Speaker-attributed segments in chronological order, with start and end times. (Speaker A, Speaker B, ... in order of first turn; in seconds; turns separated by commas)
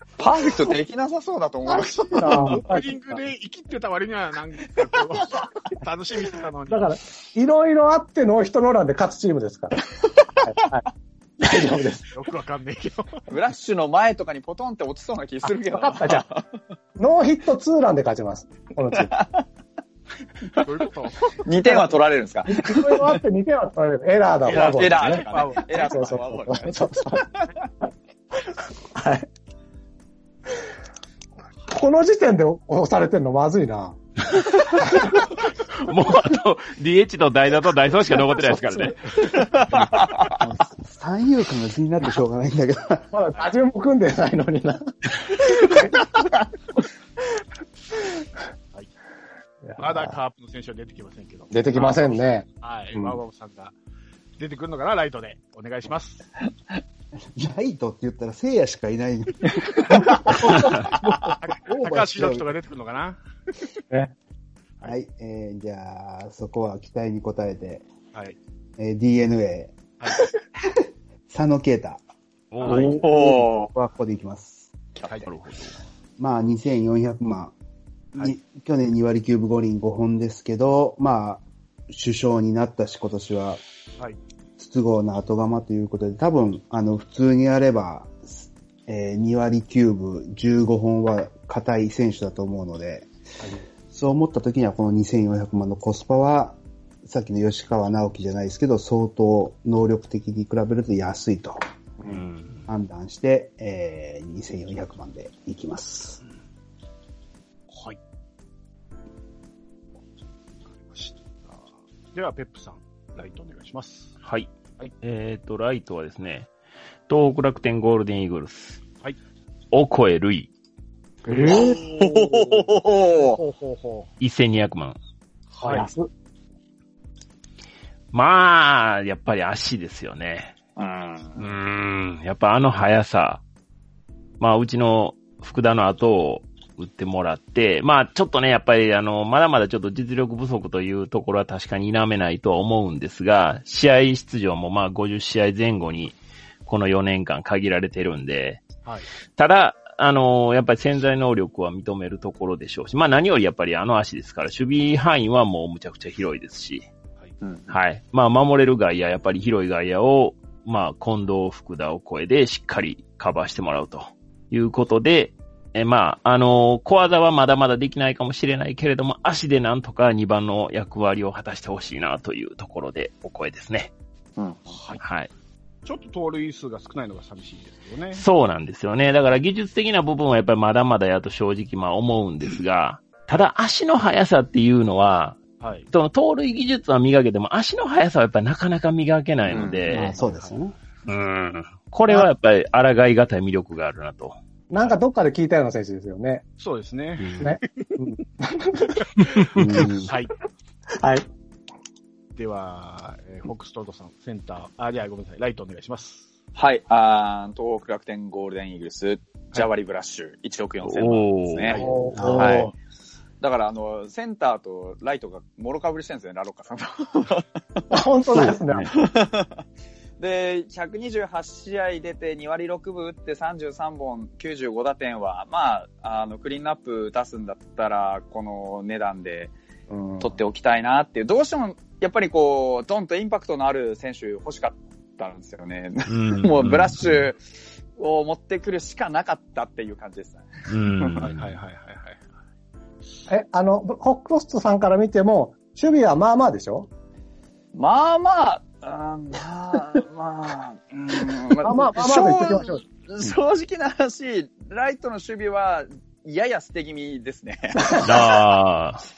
Speaker A: 0.2-2.6, Speaker B: 1.7-7.0, Speaker C: 2.1-3.2, Speaker C: 6.7-9.9, Speaker C: 10.4-10.8, Speaker C: 11.4-12.1, Speaker B: 12.1-13.2, Speaker A: 13.3-16.4, Speaker C: 15.5-16.2, Speaker C: 17.0-19.1, Speaker A: 18.9-19.4, Speaker B: 20.6-21.4, Speaker A: 21.4-23.2, Speaker C: 22.5-27.3, Speaker B: 24.4-26.1, Speaker A: 24.4-27.5, Speaker C: 28.9-29.3, Speaker C: 31.7-34.0, Speaker C: 34.8-35.2, Speaker D: 35.7-39.0, Speaker C: 38.3-39.4, Speaker A: 39.4-40.3, Speaker E: 40.4-43.1, Speaker C: 43.1-46.0, Speaker C: 49.6-50.1, Speaker B: 49.8-53.7, Speaker C: 51.5-53.2, Speaker B: 54.4-56.2, Speaker E: 57.3-62.4, Speaker A: 59.7-60.4, Speaker B: 60.3-63.7, Speaker E: 64.8-67.9, Speaker E: 68.8-69.9, Speaker E: 71.3-72.0, Speaker D: 72.5-73.0, Speaker B: 72.6-73.0, Speaker A: 72.6-73.7, Speaker E: 72.7-74.7, Speaker D: 75.2-75.8, Speaker E: 76.2-77.5, Speaker E: 78.2-83.6, Speaker E: 84.6-93.1, Speaker E: 93.9-101.6, Speaker D: 102.1-102.7, Speaker E: 102.7-106.2, Speaker B: 107.7-108.0, Speaker B: 110.8-114.2, Speaker D: 114.2-116.5, Speaker D: 117.1-118.8, Speaker D: 119.7-120.5, Speaker C: 121.3-121.8, Speaker A: 121.3-123.4, Speaker B: 121.5-124.1, Speaker D: 124.2-125.0, Speaker B: 125.5-125.9, Speaker C: 125.6-126.1, Speaker D: 128.1-130.5, Speaker A: 130.8-131.4, Speaker D: 131.4-133.4, Speaker D: 134.4-148.7, Speaker D: 149.3-156.9, Speaker A: 157.4-157.7, Speaker D: 157.7-173.9, Speaker A: 174.4-174.8, Speaker B: 174.7-175.0, Speaker D: 175.0-175.3, Speaker B: 175.8-178.2, Speaker D: 178.1-190.1, Speaker B: 185.6-185.9, Speaker A: 189.5-189.8, Speaker E: 189.9-190.7, Speaker B: 190.1-190.5, Speaker D: 191.1-194.3, Speaker C: 194.7-196.4, Speaker B: 196.6-197.9, Speaker C: 197.4-199.2, Speaker B: 199.2-200.3, Speaker E: 199.5-200.1, Speaker C: 201.0-201.2, Speaker B: 202.3-206.3, Speaker A: 206.6-212.6, Speaker D: 210.8-212.7, Speaker B: 211.7-212.1, Speaker C: 211.8-212.7, Speaker E: 212.1-212.7, Speaker A: 213.4-217.8, Speaker C: 217.9-218.9, Speaker D: 218.3-218.9, Speaker A: 218.9-219.6, Speaker A: 220.2-229.5, Speaker C: 229.9-230.4, Speaker A: 230.2-237.4, Speaker D: 236.1-237.2, Speaker A: 237.9-240.4, Speaker D: 240.7-241.5, Speaker A: 241.0-241.2, Speaker B: 241.2-242.2, Speaker C: 243.3-246.9, Speaker A: 247.7-258.0, Speaker C: 251.6-253.3, Speaker C: 257.8-258.2, Speaker D: 258.0-259.0